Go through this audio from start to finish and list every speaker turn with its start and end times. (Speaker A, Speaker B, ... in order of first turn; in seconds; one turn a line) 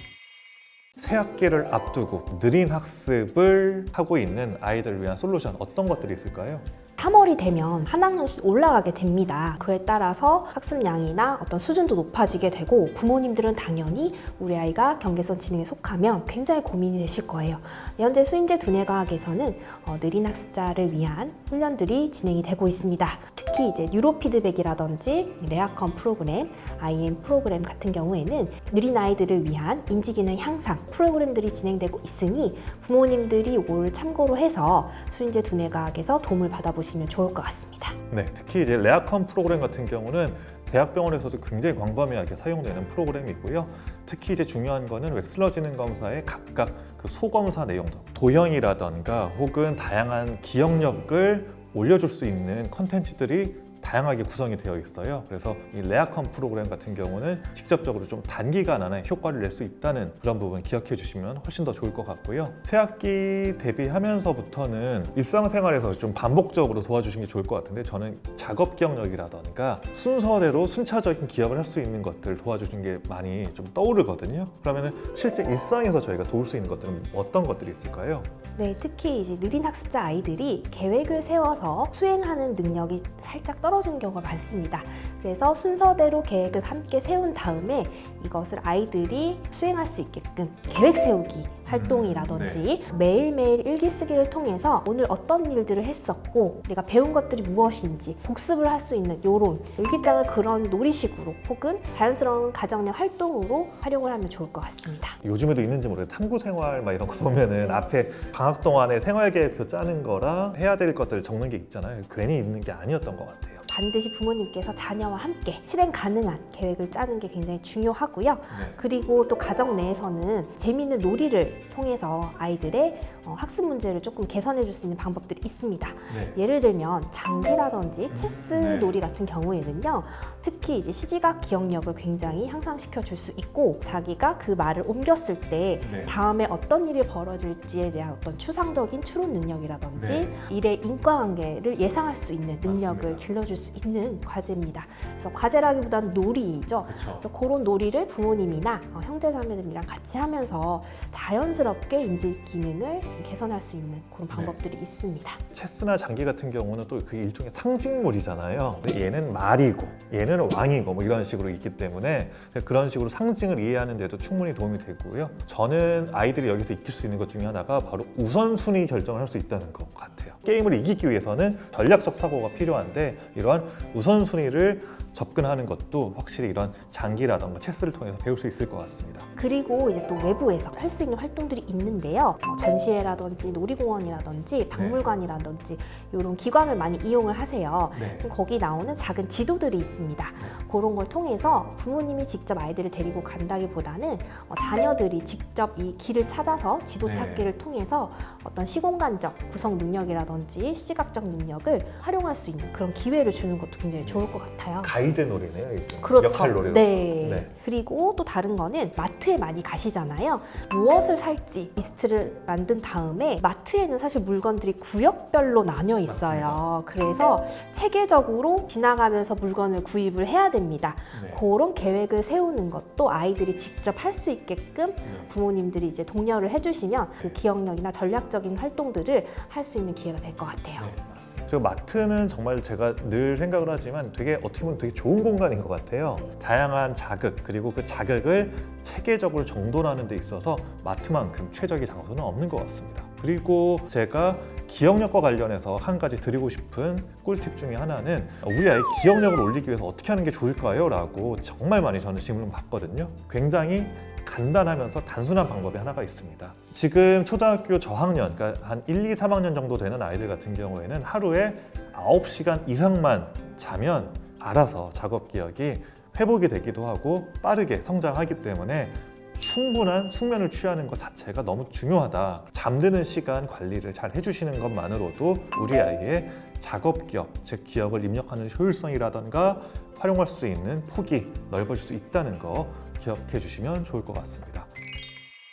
Speaker A: 1.0-6.7
Speaker B: 7.0-38.0
Speaker A: 38.1-78.3
Speaker B: 78.5-105.2
Speaker A: 91.7-92.6
Speaker A: 105.2-113.6
Speaker B: 113.7-155.4
Speaker A: 118.5-118.8
Speaker A: 126.1-126.4
Speaker A: 128.1-128.9
Speaker A: 135.8-136.1
Speaker A: 139.9-140.3
Speaker A: 142.6-143.2
Speaker A: 146.9-147.2
Speaker A: 154.3-154.6
Speaker A: 155.5-179.3
Speaker B: 179.3-204.9
Speaker A: 184.7-185.0
Speaker A: 187.9-188.3
Speaker A: 197.0-197.5
Speaker A: 204.8-207.5
Speaker B: 206.0-230.9
Speaker A: 216.1-216.6
Speaker A: 221.1-221.4
Speaker A: 230.8-284.7